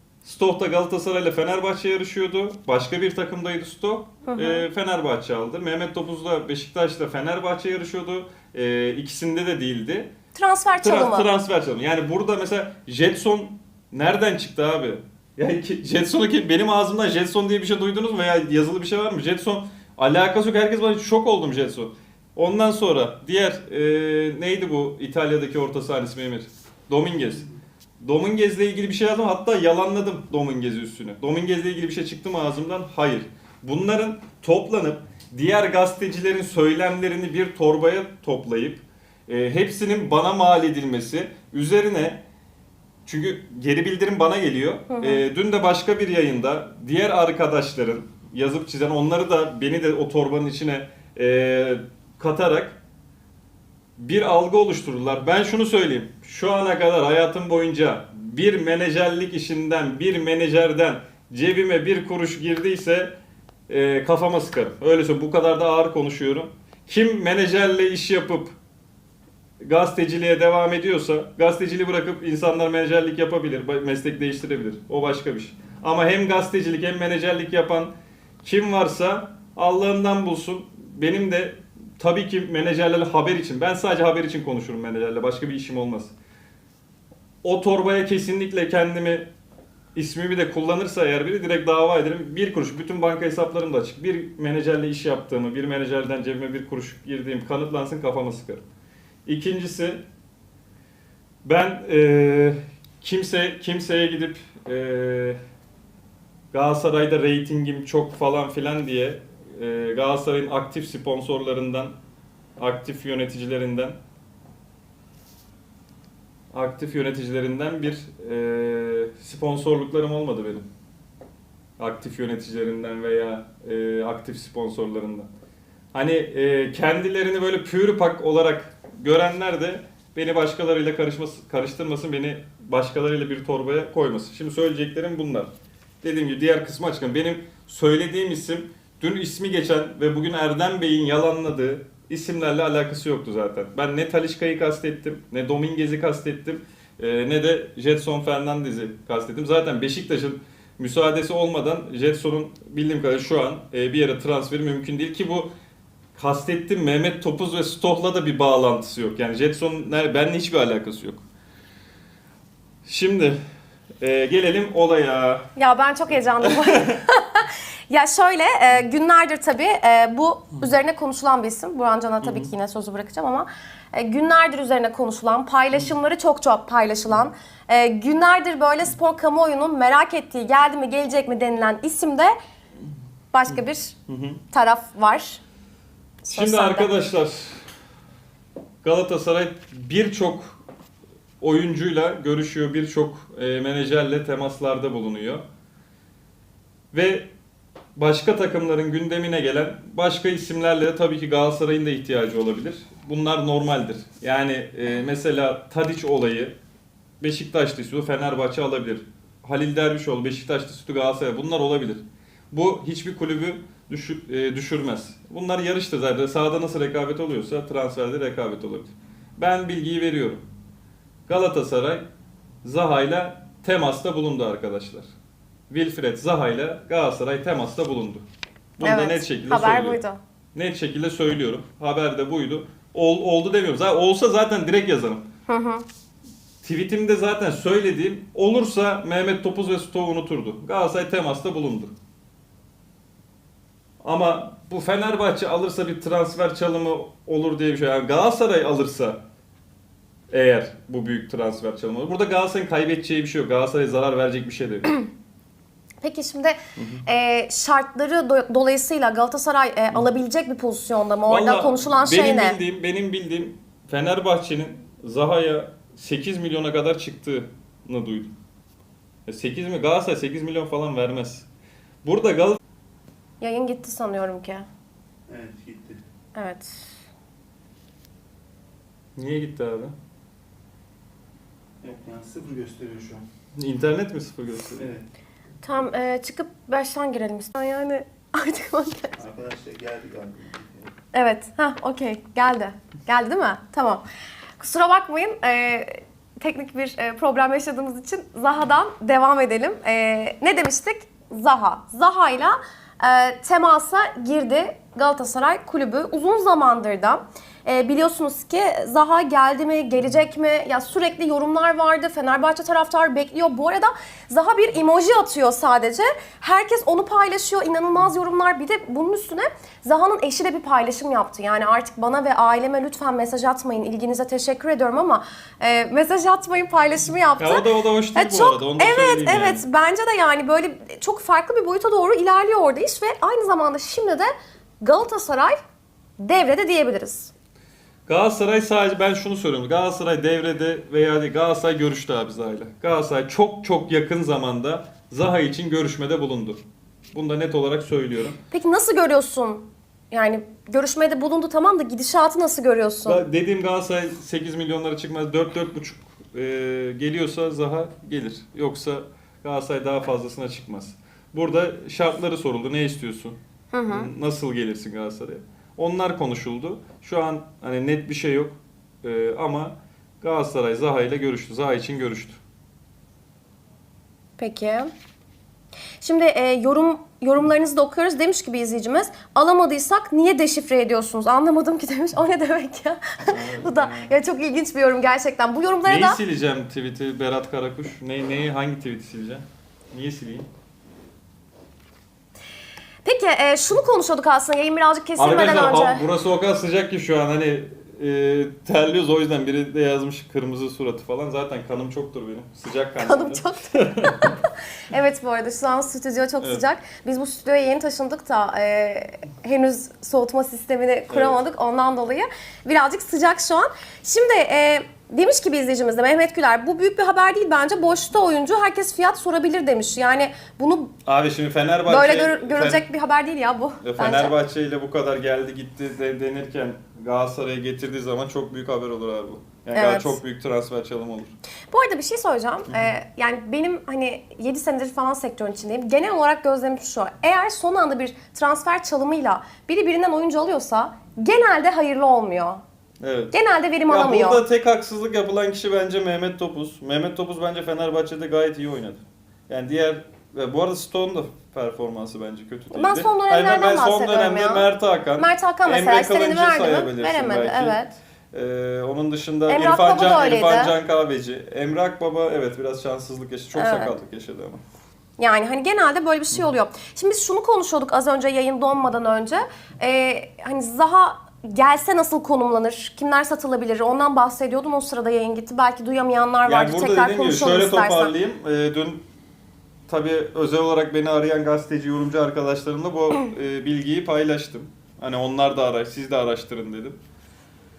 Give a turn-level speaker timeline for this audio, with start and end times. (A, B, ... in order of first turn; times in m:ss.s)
0:00.2-0:10.1 A
0:04.3-0:04.6 B
0:10.3-0:11.3 B
0:10.8-0:27.5 A
0:28.0-0:42.2 A
0:43.0-0:52.8 A
0:44.9-0:45.2 B
0:54.0-1:03.2 A
1:03.7-1:08.6 A
1:09.6-1:26.1 A
1:27.4-1:29.3 A
1:29.9-1:38.6 A
1:39.2-1:40.0 A
1:41.4-1:45.4 A
1:46.5-1:52.0 A
1:52.6-1:54.0 A
1:56.5-2:00.7 A
2:01.8-2:05.3 A
2:05.9-2:15.5 A
2:16.0-2:35.5 A
2:36.2-2:41.2 A
2:42.8-2:43.4 A
2:44.0-2:45.5 A
2:45.6-3:02.3 B
2:46.4-2:47.0 A
2:52.2-2:52.5 A
3:03.3-3:04.0 B
3:04.1-3:04.4 A
3:04.5-3:05.4 B
3:06.2-3:06.9 B
3:06.2-3:07.6 A
3:08.8-3:10.6 A
3:11.4-3:15.4 A
3:16.9-3:17.3 A
3:18.0-3:26.6 A
3:27.2-3:40.4 A
3:41.3-3:42.1 A
3:42.6-3:45.1 A
3:45.7-3:48.2 A
3:48.8-3:50.0 A
3:48.8-3:50.2 B
3:50.5-3:55.3 A
3:55.5-3:55.8 B
3:56.6-4:01.9 A
4:04.0-4:09.2 A
4:10.3-4:15.0 A
4:16.0-4:22.6 B
4:16.8-4:17.0 A
4:21.3-4:28.3 A
4:29.2-4:31.5 A
4:32.0-4:32.6 A
4:33.4-4:34.7 B
4:35.3-4:36.0 C
4:36.3-4:36.9 B
4:39.2-4:39.9 A
4:41.8-4:43.2 C
4:43.5-4:44.9 A
4:44.8-4:45.0 C
4:45.6-4:49.2 B
4:49.2-4:50.9 C
4:51.1-4:54.0 B
4:54.6-5:35.6 B
5:27.4-5:29.6 A
5:36.2-5:37.3 B
5:38.1-5:48.4 A
5:48.5-5:53.2 B
5:53.0-6:12.4 A
6:03.7-6:04.1 B
6:14.4-6:14.9 B
6:16.0-6:26.2 B
6:23.2-6:24.1 A
6:25.8-6:30.5 A
6:33.0-6:36.0 B
6:35.2-6:44.4 A
6:43.0-7:00.9 B
6:51.1-6:51.4 A
7:01.0-7:02.8 A
7:01.9-7:04.4 B
7:03.8-7:11.3 A
7:09.7-7:10.2 B
7:11.7-7:22.6 B
7:12.7-7:13.0 A
7:23.0-7:23.3 A
7:23.3-7:24.4 B
7:23.9-7:37.8 A
7:32.7-7:38.0 B
7:38.3-7:44.6 A
7:39.5-7:40.7 B
7:43.5-7:44.0 B
7:45.2-7:58.1 B
7:56.4-7:59.0 A
7:59.9-8:07.0 A